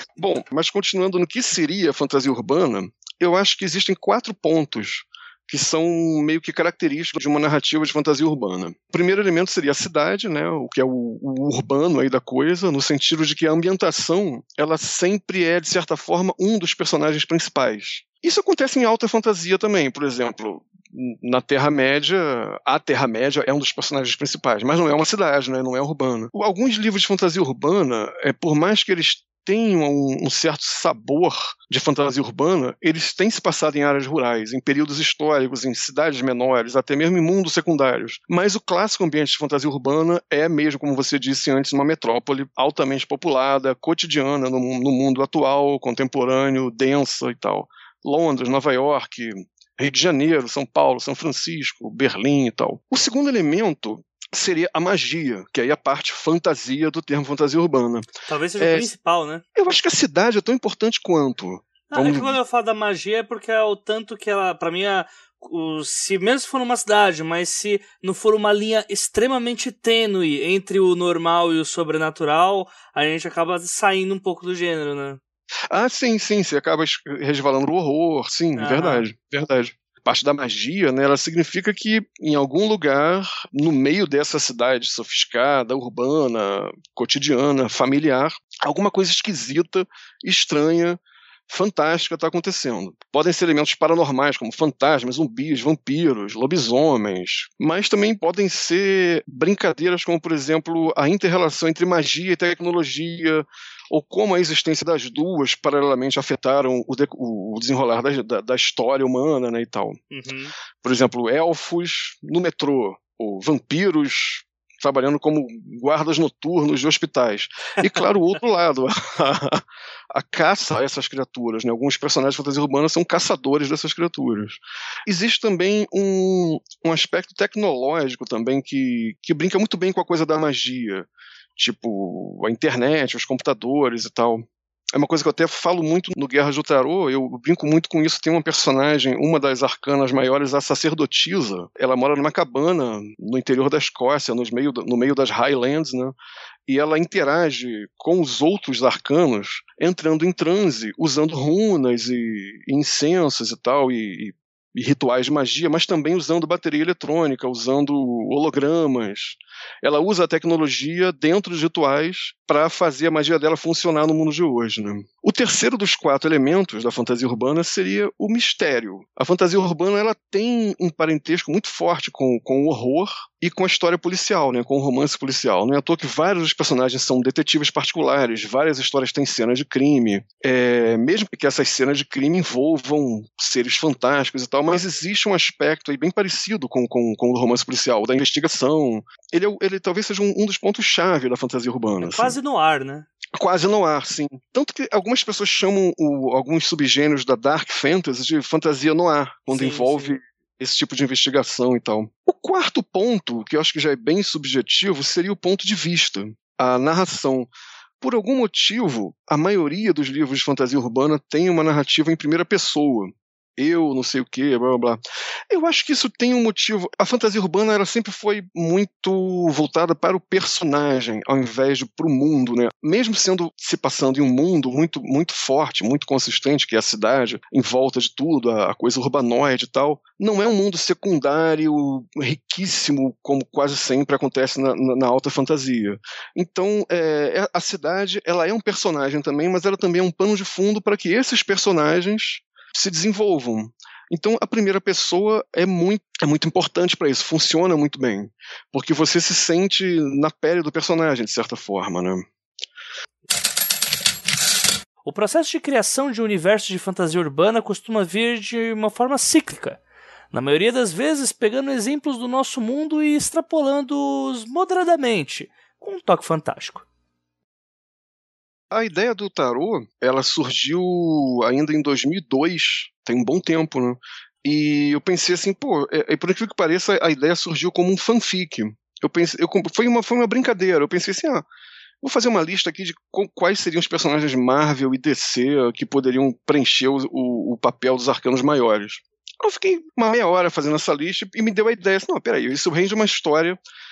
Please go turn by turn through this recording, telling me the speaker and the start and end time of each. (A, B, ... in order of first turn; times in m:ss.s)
0:00.2-0:58.9 A
0:58.3-0:59.4 B
0:59.6-1:02.4 A
1:01.9-1:15.2 B
1:15.7-1:50.0 A
1:18.6-1:19.1 B
1:50.1-1:50.5 B
1:50.8-2:14.4 A
2:15.0-2:26.2 A
2:26.7-3:12.4 A
3:12.0-3:13.1 B
3:13.4-4:12.2 A
3:19.5-3:20.2 B
4:15.0-4:19.8 B
4:20.3-4:26.9 B
4:28.7-4:41.4 A
4:42.0-4:53.6 A